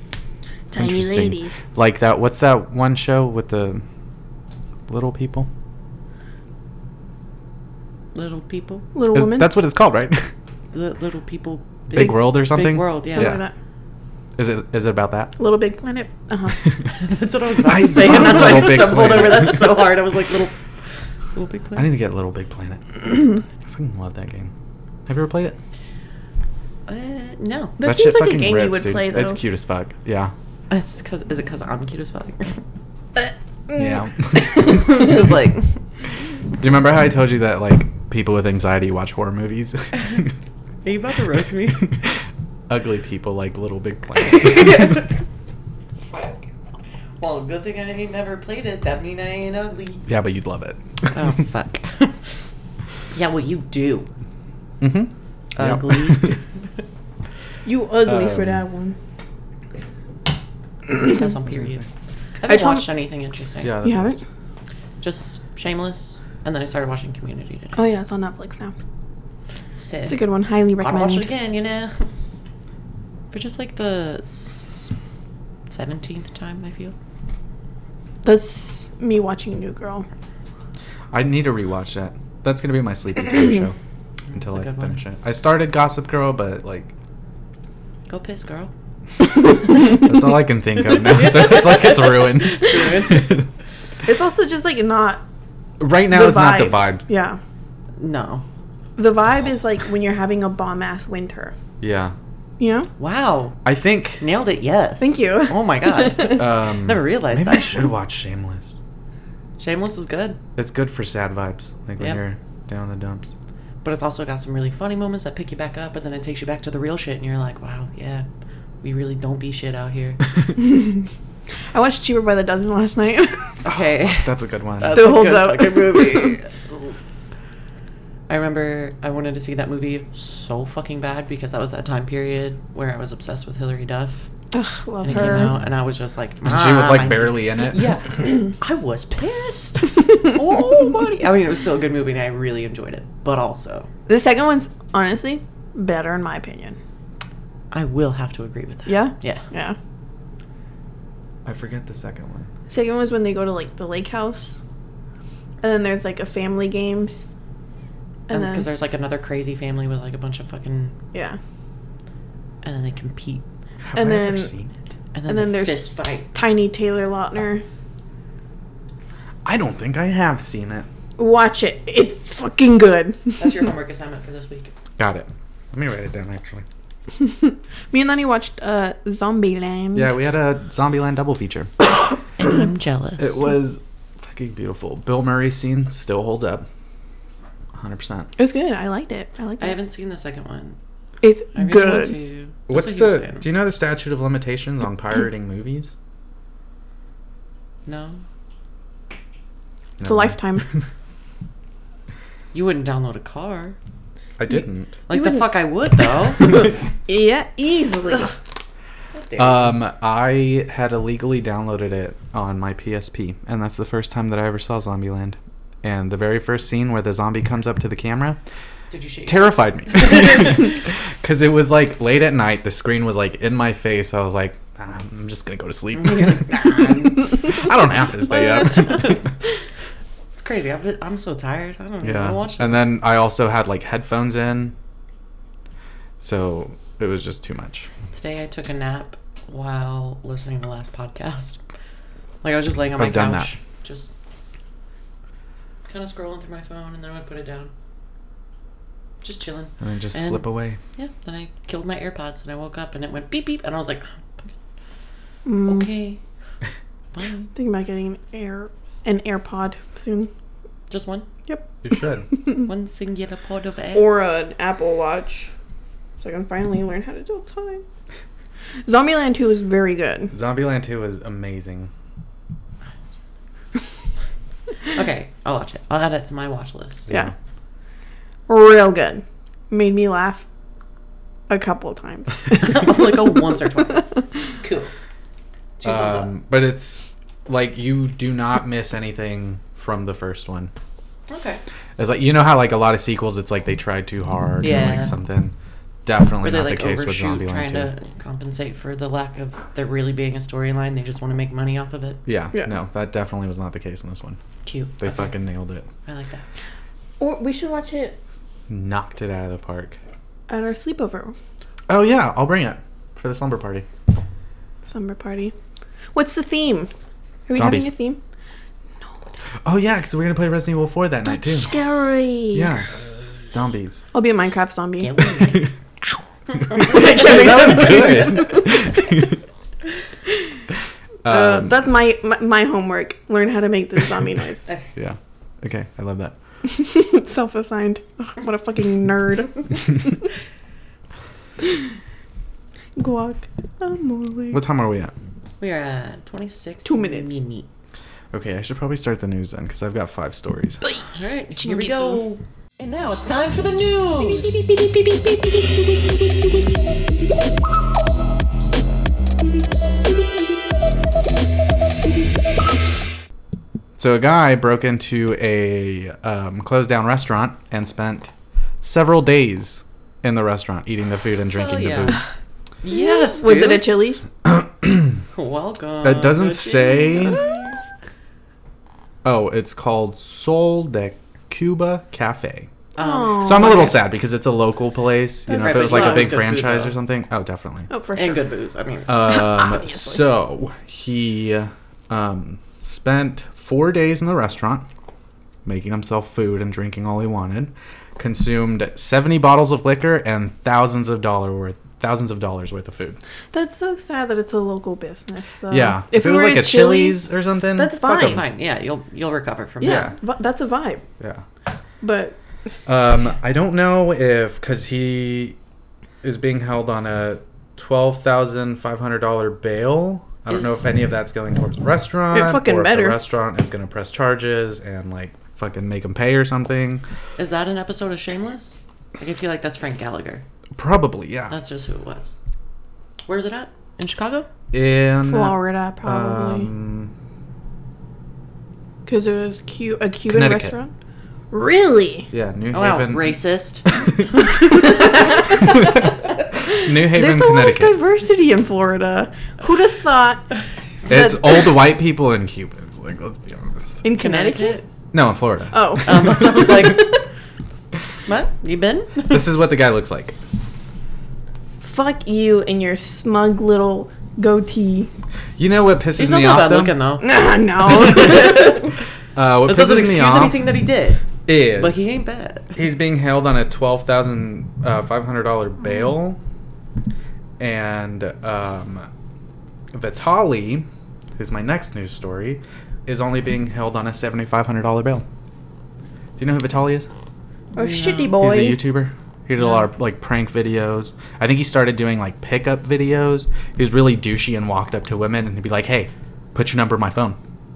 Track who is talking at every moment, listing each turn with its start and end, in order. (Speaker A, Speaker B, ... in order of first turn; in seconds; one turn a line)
Speaker A: 0.7-1.6
Speaker B: 0.8-3.8
Speaker B: 4.9-5.5
Speaker C: 8.1-8.9
Speaker A: 8.9-9.5
Speaker B: 9.1-10.3
Speaker C: 10.7-13.4
Speaker B: 11.9-13.4
Speaker A: 13.0-13.5
Speaker B: 14.4-15.3
Speaker A: 15.4-16.6
Speaker C: 17.0-20.5
Speaker B: 17.6-19.9
Speaker C: 21.3-21.9
Speaker B: 21.8-24.5
Speaker B: 25.1-25.6
Speaker C: 26.9-27.8
Speaker A: 27.8-29.4
Speaker B: 27.8-30.3
Speaker C: 30.7-32.6
Speaker A: 33.2-35.2
Speaker B: 33.8-34.8
Speaker C: 34.5-35.8
Speaker B: 36.6-40.4
Speaker C: 40.8-41.9
Speaker B: 42.7-45.0
Speaker C: 44.2-45.1
Speaker C: 47.2-50.1
Speaker B: 50.1-51.3
Speaker C: 51.1-52.3
Speaker C: 53.1-54.1
Speaker B: 54.8-56.4
Speaker C: 55.5-56.5
Speaker A: 57.6-59.0
Speaker B: 58.1-58.6
Speaker A: 60.9-61.2
Speaker C: 61.0-63.7
Speaker B: 61.5-61.9
Speaker A: 62.5-62.9
Speaker B: 63.6-64.2
Speaker A: 63.8-64.2
Speaker C: 65.0-67.8
Speaker A: 67.8-68.8
Speaker C: 69.8-70.2
Speaker A: 70.1-71.3
Speaker C: 70.8-72.1
Speaker C: 73.3-74.9
Speaker C: 75.7-77.0
Speaker A: 78.2-80.1
Speaker B: 81.1-83.8
Speaker C: 84.3-85.0
Speaker B: 84.3-86.9
Speaker C: 88.1-88.7
Speaker B: 89.8-93.5
Speaker C: 90.9-93.4
Speaker A: 94.1-95.2
Speaker B: 95.8-97.0
Speaker A: 96.1-97.4
Speaker C: 98.0-98.5
Speaker A: 99.0-101.5
Speaker B: 101.8-102.2
Speaker A: 102.6-102.9
Speaker C: 103.0-103.6
Speaker B: 103.7-104.2
Speaker C: 104.2-107.9
Speaker A: 105.0-106.4
Speaker B: 106.2-108.8
Speaker C: 109.6-110.4
Speaker B: 110.6-113.3
Speaker C: 113.8-118.2
Speaker C: 118.8-120.2
Speaker A: 120.6-121.1
Speaker A: 121.7-123.6
Speaker C: 123.6-127.0
Speaker B: 123.7-125.0
Speaker A: 124.9-126.4
Speaker C: 128.3-134.3
Speaker A: 134.5-135.6
Speaker C: 135.0-143.9
Speaker B: 136.4-137.8
Speaker A: 144.1-146.8
Speaker C: 147.7-149.5
Speaker A: 148.9-149.8
Speaker B: 151.4-152.5
Speaker A: 152.7-154.6
Speaker A: 155.6-157.3
Speaker A: 158.3-158.7
Speaker C: 158.3-161.0
Speaker A: 161.1-161.4
Speaker C: 162.6-163.4
Speaker B: 163.8-164.9
Speaker A: 163.9-164.5
Speaker C: 165.1-166.3
Speaker A: 165.3-167.6
Speaker B: 169.4-170.9
Speaker A: 171.2-173.5
Speaker C: 173.4-174.7
Speaker B: 175.0-176.7
Speaker A: 177.2-180.2
Speaker B: 179.9-181.7
Speaker C: 182.4-183.4
Speaker B: 183.2-186.7
Speaker B: 187.8-188.3
Speaker A: 188.4-189.8
Speaker C: 189.6-190.8
Speaker A: 191.2-192.2
Speaker C: 191.6-193.5
Speaker B: 192.7-195.9
Speaker C: 197.9-198.2
Speaker B: 200.0-200.8
Speaker A: 200.0-200.7
Speaker C: 202.5-203.8
Speaker B: 204.4-205.0
Speaker C: 205.1-206.7
Speaker A: 205.1-208.3
Speaker C: 209.1-209.7
Speaker B: 209.4-218.4
Speaker C: 218.9-220.8
Speaker B: 219.3-229.3
Speaker C: 225.9-229.3
Speaker C: 230.3-232.9
Speaker B: 232.0-234.8
Speaker B: 236.2-237.9
Speaker C: 238.1-241.6
Speaker C: 242.4-244.1
Speaker B: 243.0-243.5
Speaker C: 245.9-247.7
Speaker C: 249.2-250.4
Speaker B: 249.8-250.8
Speaker C: 251.0-254.5
Speaker A: 255.5-255.9
Speaker C: 255.7-256.2
Speaker C: 257.1-257.5
Speaker A: 257.6-260.3
Speaker C: 260.9-261.3
Speaker B: 261.8-262.3
Speaker A: 262.3-262.7
Speaker C: 262.5-264.1
Speaker A: 263.9-265.5
Speaker A: 266.2-267.8
Speaker A: 268.9-270.4
Speaker B: 270.3-271.9
Speaker C: 274.9-277.1
Speaker B: 277.1-277.3
Speaker A: 278.5-280.5
Speaker A: 281.5-283.4
Speaker C: 282.5-284.9
Speaker C: 285.8-286.3
Speaker B: 285.8-290.7
Speaker C: 291.3-291.6
Speaker B: 292.0-295.5
Speaker C: 294.6-295.1
Speaker B: 296.1-297.9
Speaker C: 296.4-302.2
Speaker B: 302.3-304.4
Speaker C: 304.6-305.4
Speaker B: 305.0-305.9
Speaker C: 306.1-306.4
Speaker A: 307.2-308.2
Speaker B: 308.7-310.0
Speaker A: 310.5-311.3
Speaker B: 311.9-313.9
Speaker A: 314.8-315.5
Speaker A: 316.1-316.9
Speaker A: 317.5-318.2
Speaker B: 317.5-317.9
Speaker B: 319.6-321.7
Speaker A: 321.2-322.7
Speaker B: 322.5-322.9
Speaker B: 323.5-324.1
Speaker A: 324.1-329.1
Speaker C: 325.0-325.7
Speaker B: 325.4-325.7
Speaker C: 326.7-328.5
Speaker B: 326.7-329.4
Speaker B: 331.2-331.9
Speaker A: 331.3-334.7
Speaker B: 335.0-336.3
Speaker A: 336.6-340.1
Speaker A: 343.0-344.6
Speaker B: 344.5-345.1
Speaker C: 345.6-347.7
Speaker A: 346.9-347.4
Speaker B: 348.3-350.8
Speaker A: 350.8-352.2
Speaker C: 351.1-354.9
Speaker A: 354.2-355.5
Speaker B: 364.0-368.3
Speaker B: 368.8-372.2
Speaker C: 371.5-372.2
Speaker C: 372.8-373.9
Speaker A: 372.9-374.2
Speaker B: 374.4-375.2
Speaker C: 375.3-377.8
Speaker B: 376.0-377.4
Speaker A: 377.3-377.8
Speaker B: 379.2-382.7
Speaker C: 382.9-384.0
Speaker A: 383.0-383.9
Speaker B: 383.4-387.9
Speaker A: 385.5-386.5
Speaker C: 385.5-387.0
Speaker A: 387.9-388.4
Speaker C: 388.1-389.2
Speaker B: 389.1-394.9
Speaker A: 389.2-390.3
Speaker B: 395.6-403.2
Speaker A: 403.5-408.4
Speaker B: 405.7-408.4
Speaker C: 408.0-410.1
Speaker A: 409.8-411.1
Speaker B: 409.8-410.2
Speaker A: 412.0-412.4
Speaker B: 412.9-415.6
Speaker B: 416.2-427.0
Speaker C: 420.5-420.9
Speaker A: 422.3-423.2
Speaker C: 427.4-430.4
Speaker B: 430.8-431.6
Speaker C: 431.5-432.3
Speaker C: 433.3-434.5
Speaker B: 434.7-437.1
Speaker A: 435.2-436.7
Speaker A: 439.1-440.9
Speaker B: 440.3-440.8
Speaker A: 441.5-442.3
Speaker B: 442.3-443.4
Speaker C: 442.7-445.6
Speaker B: 444.0-444.9
Speaker A: 445.3-445.7
Speaker B: 445.7-446.2
Speaker A: 446.7-450.5
Speaker B: 446.7-448.0
Speaker B: 451.1-454.0
Speaker A: 454.0-454.8
Speaker C: 454.2-454.9
Speaker B: 455.1-456.9
Speaker A: 455.7-456.4
Speaker C: 456.0-457.2
Speaker C: 458.3-459.5
Speaker B: 459.3-460.4
Speaker A: 461.8-465.1
Speaker B: 465.6-467.0
Speaker C: 466.2-467.3
Speaker A: 467.2-468.9
Speaker C: 467.9-468.9
Speaker B: 469.4-470.6
Speaker C: 469.6-472.8
Speaker B: 471.4-472.1
Speaker B: 472.8-476.4
Speaker B: 477.6-479.1
Speaker B: 479.9-485.2
Speaker B: 486.4-487.1
Speaker A: 487.8-488.9
Speaker C: 487.8-488.4
Speaker B: 488.4-497.4
Speaker C: 489.6-489.9